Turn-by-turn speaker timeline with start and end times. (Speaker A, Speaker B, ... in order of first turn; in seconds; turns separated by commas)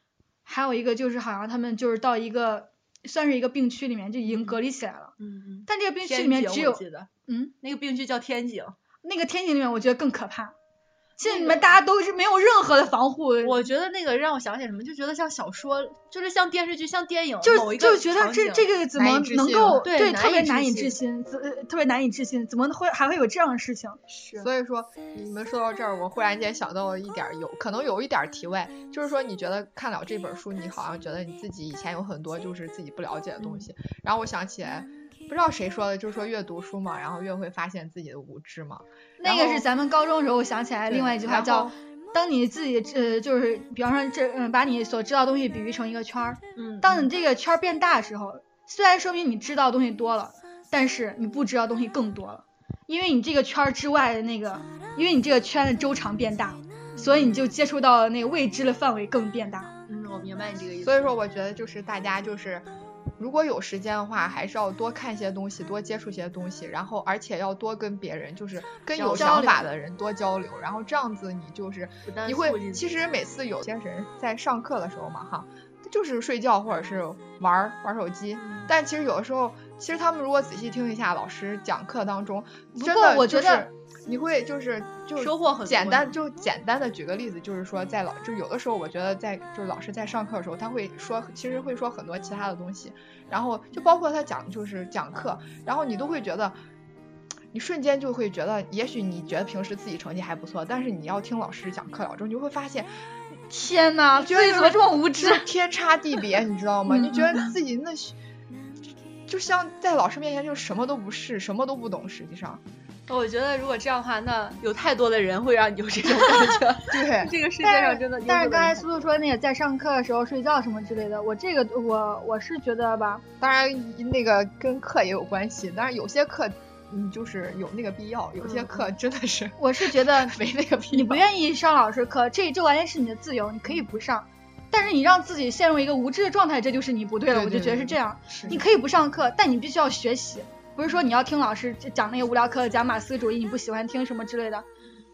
Speaker A: 0.5-5.1, Speaker B: 4.2-4.6, Speaker B: 5.2-7.1, Speaker A: 5.7-7.5, Speaker B: 7.6-8.8, Speaker A: 9.0-10.5, Speaker A: 11.2-13.6, Speaker B: 11.2-11.7, Speaker B: 13.4-18.7, Speaker A: 17.4-24.0, Speaker C: 18.9-19.9, Speaker B: 19.8-21.0, Speaker B: 24.1-24.5, Speaker C: 24.4-38.8, Speaker B: 33.4-33.7, Speaker A: 39.2-59.7, Speaker B: 40.9-41.2, Speaker C: 41.2-41.7, Speaker B: 46.5-47.1, Speaker B: 56.9-57.4, Speaker B: 59.9-61.1, Speaker C: 60.8-62.6, Speaker C: 63.2-96.5, Speaker B: 69.0-69.7, Speaker A: 69.1-69.6, Speaker B: 72.0-73.0, Speaker B: 78.4-78.7, Speaker A: 82.8-83.7, Speaker B: 85.2-86.1, Speaker C: 97.5-102.9, Speaker A: 103.5-105.5, Speaker C: 104.2-108.2, Speaker A: 106.9-107.4, Speaker C: 109.3-112.6, Speaker B: 113.1-119.0, Speaker C: 116.9-117.3, Speaker A: 117.6-123.2, Speaker C: 123.4-131.2, Speaker B: 128.4-128.9, Speaker A: 129.6-130.4, Speaker A: 130.9-144.6, Speaker C: 137.3-138.6